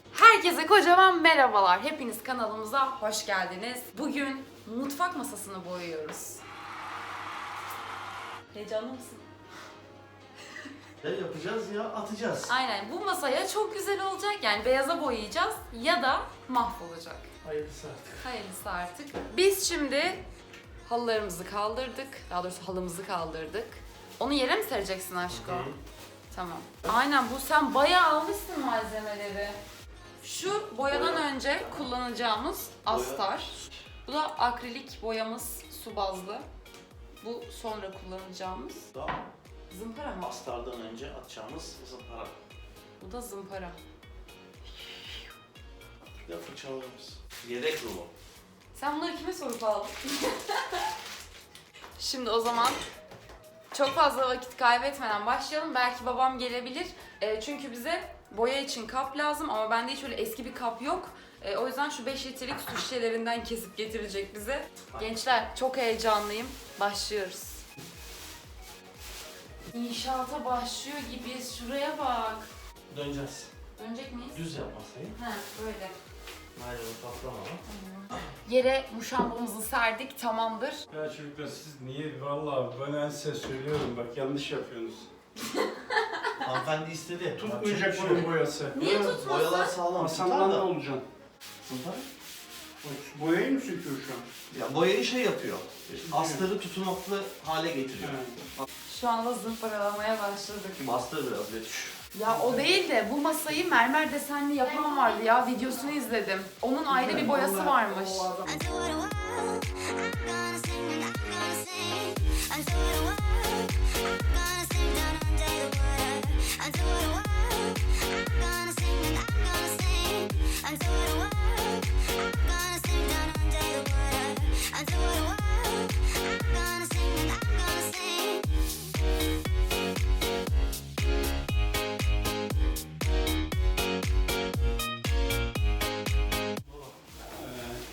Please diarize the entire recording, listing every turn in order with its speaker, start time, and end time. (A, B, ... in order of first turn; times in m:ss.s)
0:00.1-0:06.4 A
0:08.5-0:09.2 A
0:11.0-0:12.5 B
0:12.4-0:17.3 A
0:17.4-0:18.3 B
0:18.2-0:20.2 A
0:20.8-0:25.7 A
0:25.3-0:25.8 B
0:26.3-0:29.6 A
0:30.2-0:36.4 A
0:30.9-0:31.9 B
0:32.9-0:33.6 B
0:37.2-0:38.9 A
0:38.9-0:39.2 B
0:39.7-0:40.3 A
0:40.2-0:42.4 B
0:43.0-0:43.8 A
0:46.2-0:48.1 B
0:48.7-0:50.8 A
0:52.0-0:52.8 A
0:53.7-1:07.6 A
1:04.9-1:05.2 B
1:09.7-1:12.5 A
1:12.9-1:13.5 B
1:13.8-1:14.4 A
1:14.3-1:15.2 B
1:15.2-1:15.9 A
1:16.5-1:18.2 B
1:17.7-1:20.8 A
1:20.9-1:25.1 C
1:25.5-1:26.3 A
1:26.4-1:30.7 B
1:27.4-1:28.8 C
1:28.7-1:29.8 A
1:29.9-1:31.0 C
1:31.6-1:32.0 B
1:32.8-1:34.2 C
1:34.5-1:38.6 B
1:35.9-1:36.4 C
1:38.0-1:38.4 C
1:38.9-1:40.8 A
1:40.8-1:42.0 B
1:42.1-1:48.4 A
1:42.3-1:42.7 C
1:46.9-1:48.8 C
2:16.7-2:17.0 B
2:17.3-2:17.8 C